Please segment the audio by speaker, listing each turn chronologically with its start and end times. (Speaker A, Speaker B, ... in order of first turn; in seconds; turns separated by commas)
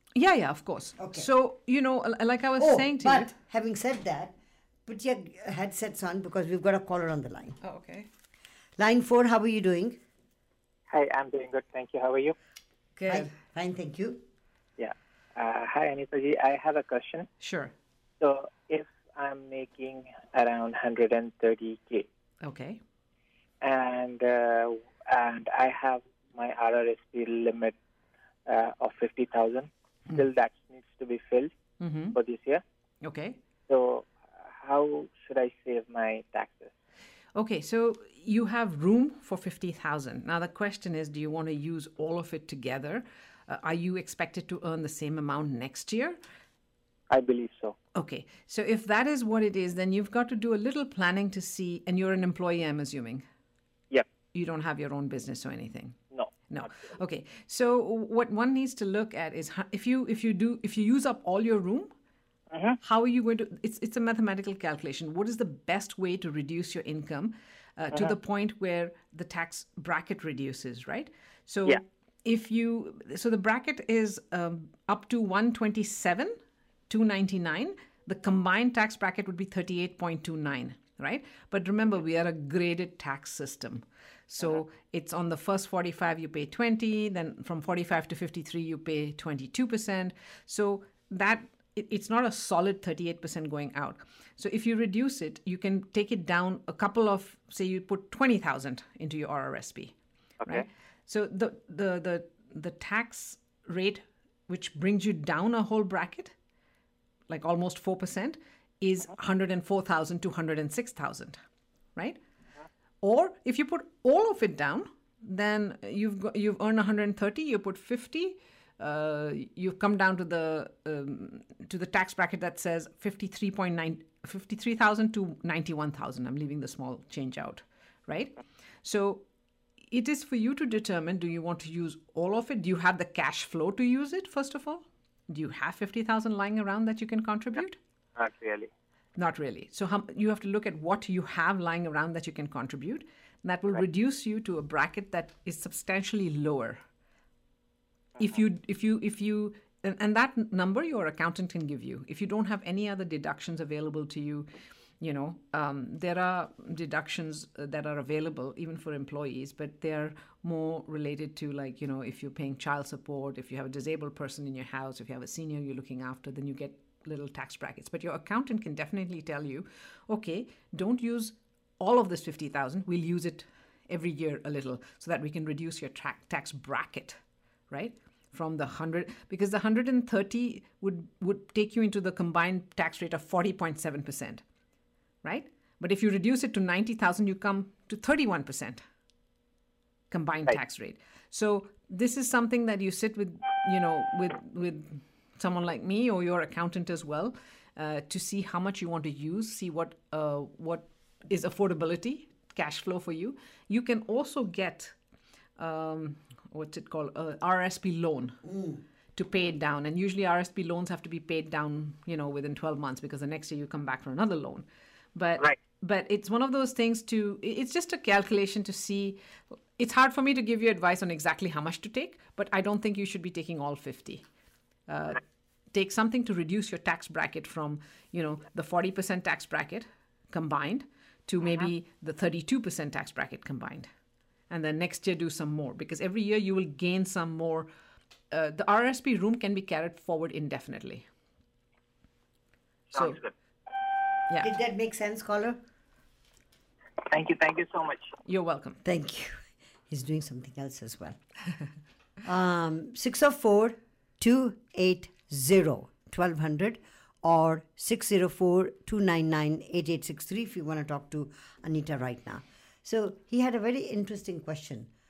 Speaker A: 0.1-3.3, Speaker B: 1.0-1.3, Speaker B: 2.6-4.3, Speaker B: 4.8-7.6, Speaker A: 7.6-8.1, Speaker B: 8.8-10.0, Speaker C: 10.9-12.3, Speaker A: 13.0-13.3, Speaker B: 13.1-14.2, Speaker C: 14.8-17.3, Speaker A: 17.4-17.7, Speaker C: 18.2-22.1, Speaker A: 22.4-22.8, Speaker C: 23.6-27.7, Speaker C: 28.4-31.5, Speaker A: 31.8-32.1, Speaker C: 32.1-32.6, Speaker A: 33.0-33.4, Speaker C: 33.7-36.7, Speaker A: 37.3-46.2, Speaker C: 47.1-47.7, Speaker A: 47.9-53.2, Speaker A: 54.3-56.0, Speaker A: 56.5-61.9, Speaker C: 62.5-62.8, Speaker A: 62.8-76.3, Speaker A: 76.9-106.3, Speaker A: 107.3-111.4, Speaker A: 113.0-129.2, Speaker A: 129.9-137.8, Speaker C: 138.2-138.7, Speaker A: 139.2-146.8, Speaker A: 148.2-154.5, Speaker A: 155.0-177.2, Speaker A: 177.7-184.4, Speaker A: 185.2-188.8, Speaker A: 190.1-204.9, Speaker A: 205.6-208.4, Speaker B: 208.5-208.8, Speaker A: 209.1-219.2, Speaker A: 219.8-224.2, Speaker A: 224.9-233.9, Speaker A: 234.5-237.7, Speaker A: 238.3-241.1, Speaker A: 242.9-243.2, Speaker B: 244.4-245.6, Speaker C: 247.1-248.1, Speaker A: 248.3-248.8, Speaker B: 248.8-249.3, Speaker B: 249.9-251.2, Speaker B: 252.2-264.9